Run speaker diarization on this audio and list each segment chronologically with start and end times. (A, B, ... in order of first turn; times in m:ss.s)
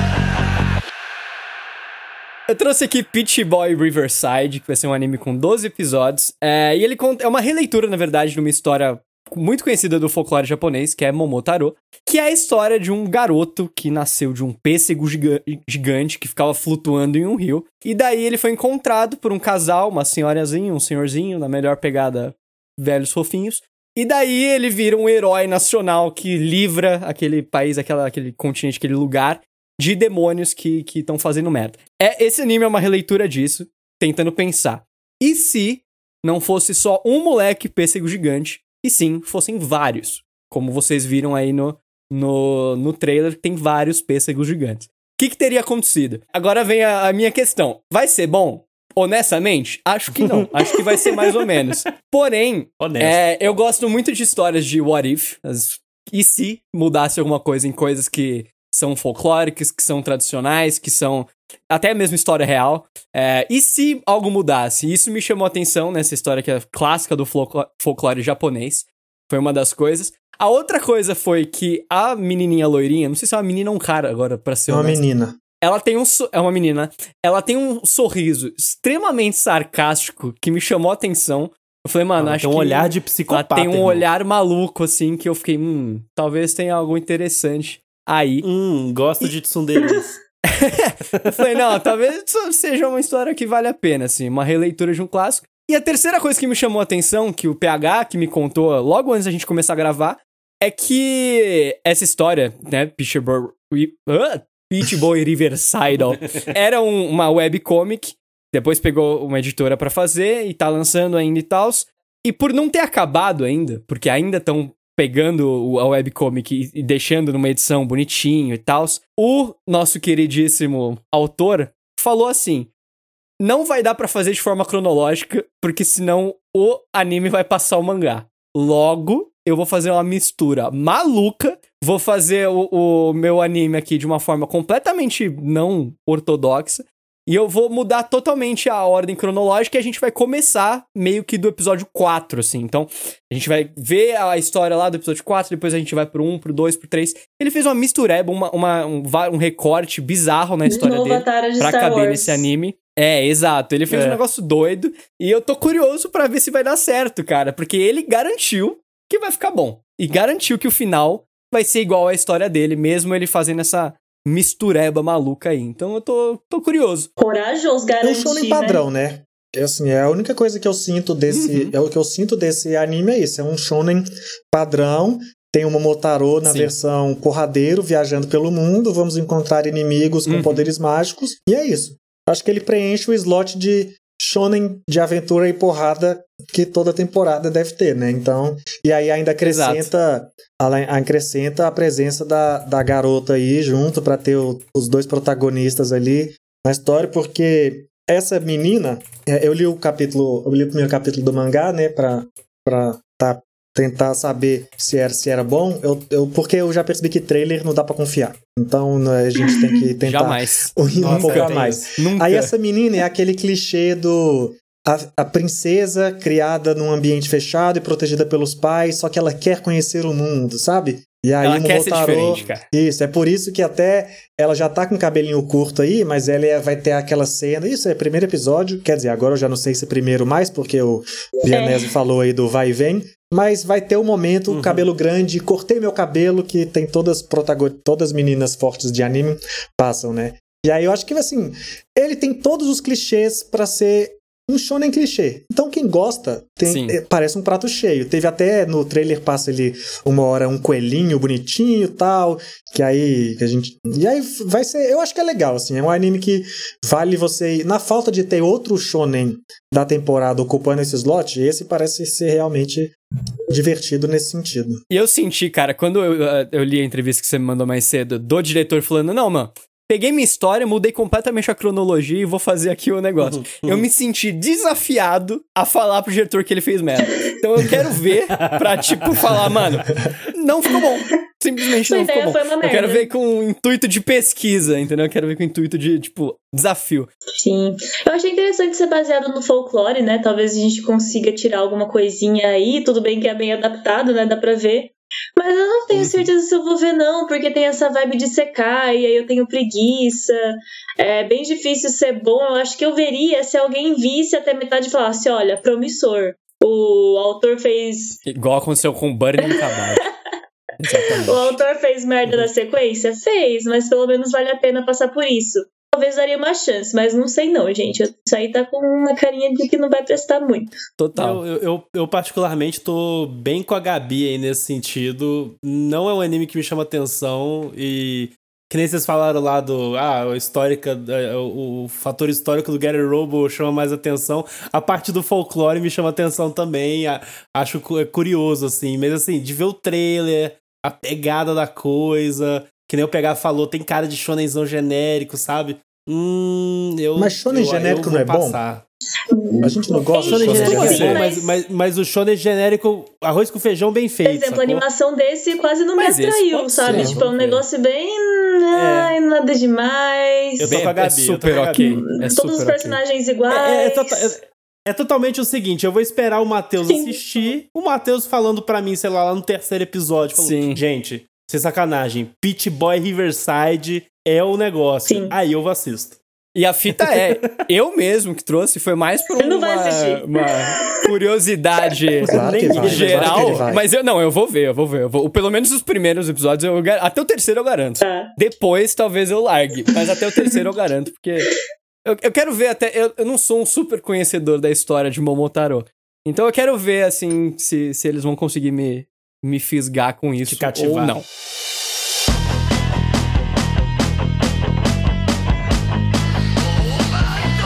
0:02.5-1:15.0 A
0:50.1-0:51.4 B
0:52.8-0:53.2 B
1:14.7-1:15.4 C
1:15.6-1:28.4 A
1:22.2-1:24.1 B
1:28.4-1:30.2 B
1:30.5-2:02.7 A
1:31.2-1:31.6 B
2:03.4-2:47.1 A
2:30.6-2:32.5 D
2:33.9-2:34.2 B
2:47.2-2:48.8 D
2:48.0-4:22.9 C
2:51.3-2:51.7 A
2:56.4-2:56.7 A
3:00.3-3:00.7 A
3:09.4-3:09.9 A
3:29.5-3:29.8 D
3:30.0-3:32.5 A
3:30.9-3:31.9 B
3:41.4-3:42.6 A
3:51.5-3:51.9 D
3:54.5-3:54.9 B
4:06.6-4:07.0 A
4:23.5-4:24.8 C
4:24.9-4:47.1 A
4:33.2-4:33.8 B
4:38.4-4:39.5 B
4:41.8-4:43.1 D
4:47.4-5:08.2 D
4:55.9-4:56.3 B
5:08.2-5:10.1 A
5:09.4-5:10.1 D
5:10.8-5:11.6 A
5:11.1-5:20.7 D
5:21.0-5:21.4 A
5:21.2-5:48.8 B
5:47.2-5:48.6 C
5:49.3-5:51.6 D
5:49.6-5:51.2 C
5:50.2-5:54.8 B
5:50.4-5:51.2 A
5:54.2-6:00.7 D
5:56.0-5:57.6 A
5:56.9-5:57.2 B
5:56.9-5:57.2 C
5:58.7-5:59.1 B
6:00.6-6:01.9 B
6:00.6-6:03.0 A
6:01.7-6:04.4 D
6:03.5-6:16.2 B
6:06.9-6:07.2 D
6:10.4-6:10.8 A
6:15.1-6:15.4 D
6:16.6-6:31.5 A
6:16.9-6:17.5 B
6:19.4-6:21.1 D
6:22.2-6:23.7 B
6:22.3-6:23.9 C
6:28.0-6:28.3 D
6:32.0-6:41.2 A
6:40.4-6:41.2 B